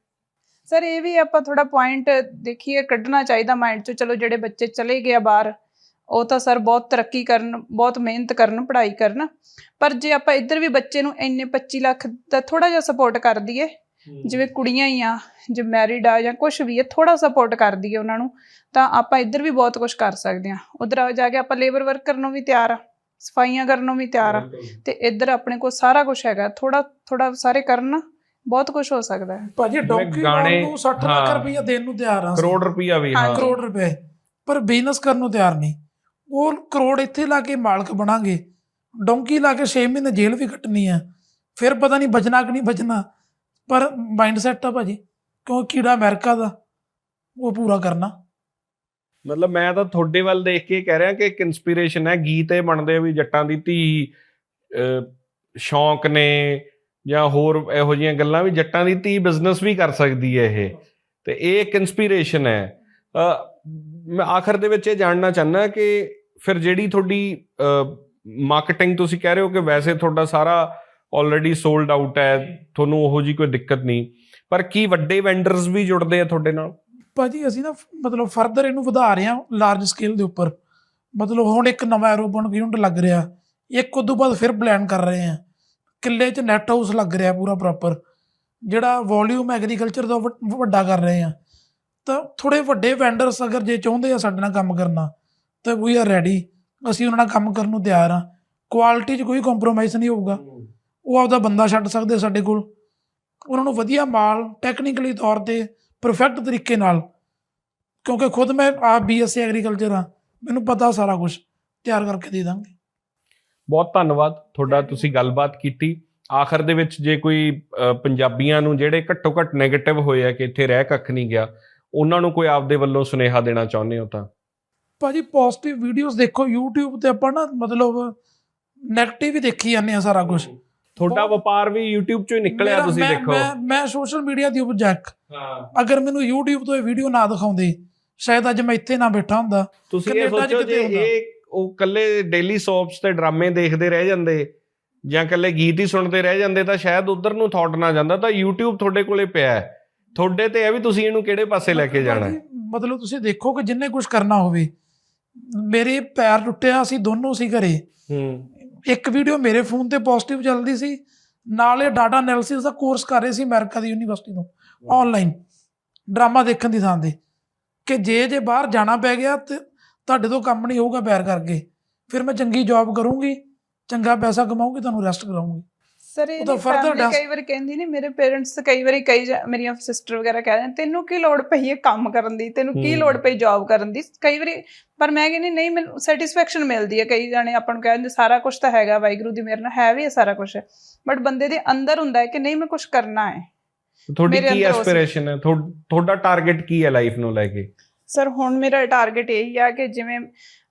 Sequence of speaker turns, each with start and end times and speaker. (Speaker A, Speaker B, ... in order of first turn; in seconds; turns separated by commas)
Speaker A: 0.7-5.5, Speaker A: 6.1-9.3, Speaker A: 9.8-13.7, Speaker B: 14.1-14.4, Speaker A: 14.2-29.5, Speaker B: 24.2-24.8, Speaker C: 29.4-32.5, Speaker B: 29.9-31.4, Speaker B: 32.4-33.4, Speaker A: 33.1-33.6, Speaker C: 33.3-33.9, Speaker C: 34.5-35.7, Speaker C: 36.3-38.4, Speaker C: 39.0-41.0, Speaker C: 41.6-43.0, Speaker C: 43.7-46.5, Speaker C: 47.4-48.1, Speaker B: 49.2-54.1, Speaker B: 54.7-76.7, Speaker C: 77.1-80.5, Speaker C: 81.2-83.2, Speaker C: 83.8-85.4, Speaker C: 86.0-88.0, Speaker C: 88.7-91.3, Speaker C: 92.0-95.1, Speaker C: 95.6-100.4, Speaker B: 100.3-100.7, Speaker C: 101.1-102.6, Speaker C: 103.5-107.0, Speaker C: 108.0-112.7, Speaker B: 113.7-124.3, Speaker C: 125.0-128.1, Speaker C: 128.9-130.5, Speaker B: 130.3-133.5, Speaker C: 131.0-131.3, Speaker C: 132.5-135.1, Speaker B: 135.3-135.7, Speaker C: 135.7-141.1, Speaker B: 139.9-144.5, Speaker B: 145.1-152.3, Speaker C: 151.7-154.7, Speaker C: 155.5-157.8, Speaker B: 158.1-158.5, Speaker C: 158.9-161.0, Speaker C: 161.5-165.3, Speaker C: 166.1-167.1, Speaker C: 167.8-175.6, Speaker A: 176.1-193.4, Speaker C: 176.4-177.2, Speaker B: 182.7-183.2, Speaker B: 194.1-197.7, Speaker A: 194.3-195.0, Speaker A: 198.1-200.2